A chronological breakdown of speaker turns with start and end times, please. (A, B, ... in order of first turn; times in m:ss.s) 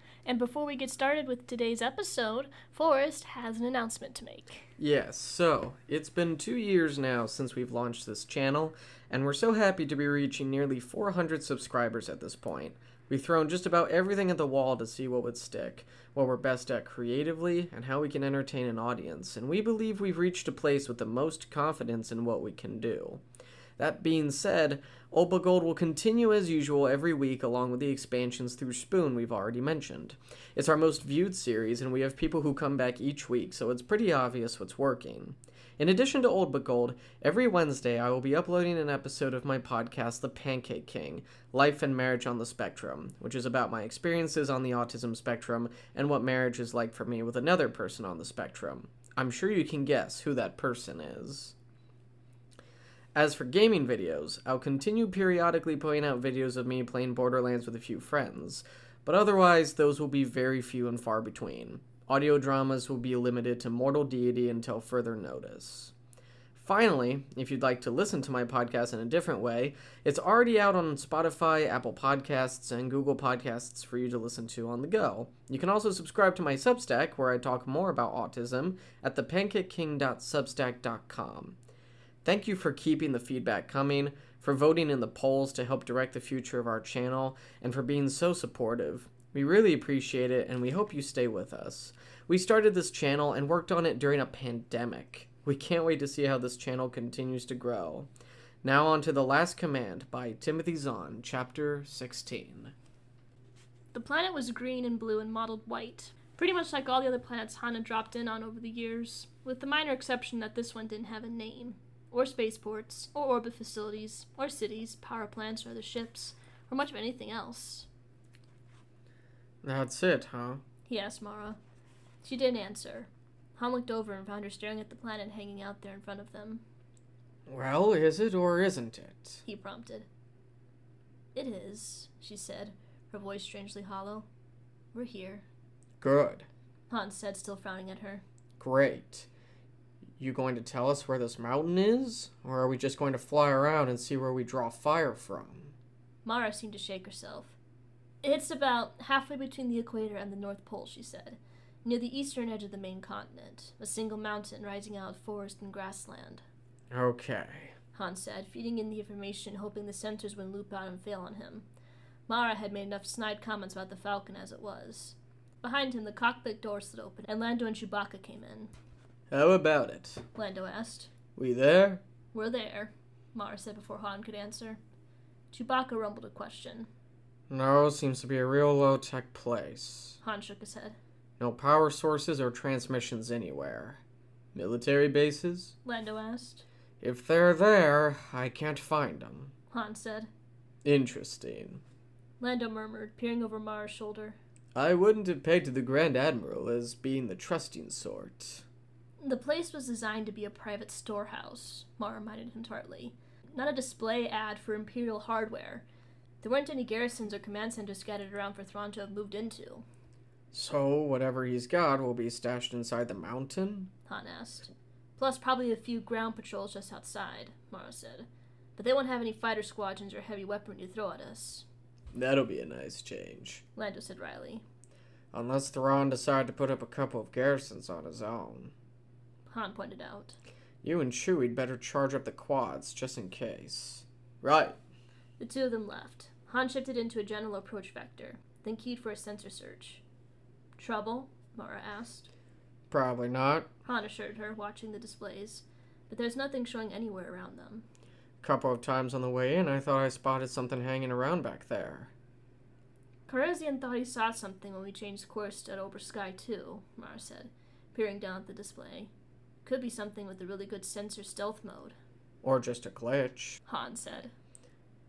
0:00.3-0:04.7 A
0:04.8-0:23.2 B
0:23.8-0:51.6 B
0:53.1-1:05.9 B
1:06.5-1:21.6 B
1:22.2-1:38.1 B
1:38.6-1:42.7 B
1:43.9-1:57.9 A
1:59.6-2:00.6 B
2:00.9-2:01.6 A
2:02.2-2:06.6 A
2:07.5-2:09.4 B
2:09.4-2:10.1 A
2:11.4-2:14.3 A
2:14.9-2:15.5 A
2:16.0-2:16.5 B
2:16.9-2:18.2 A
2:18.6-2:19.3 B
2:20.2-2:25.8 B
2:26.2-2:27.6 A
2:28.2-2:36.4 A
2:36.9-2:37.8 B
2:37.9-2:41.7 A
2:42.3-2:48.7 A
2:49.3-2:50.3 B
2:50.4-2:51.1 A
2:51.4-2:52.0 B
2:52.3-2:54.8 A
2:55.5-2:56.9 A
2:57.5-3:00.2 B
3:00.2-3:01.0 A
3:01.4-3:04.0 B
3:04.5-3:05.8 B
3:05.8-3:06.6 A
3:07.0-3:09.5 B
3:09.7-3:10.3 A
3:10.8-3:11.8 B
3:12.4-3:14.4 A
3:14.8-3:18.7 B
3:19.2-3:25.8 A
3:26.4-3:29.8 A
3:30.5-3:33.9 B
3:34.1-3:41.7 A
3:42.1-3:43.6 B
3:43.8-3:44.6 A
3:45.3-3:48.7 B
3:49.5-3:50.4 A
3:50.8-3:54.8 B
3:55.4-4:00.0 A
4:00.8-4:02.3 A
4:02.9-4:03.7 B
4:03.9-4:07.8 A
4:08.4-4:12.1 B
4:13.3-4:19.1 A
4:19.6-4:22.0 A
4:22.4-4:23.6 B
4:23.7-4:24.3 A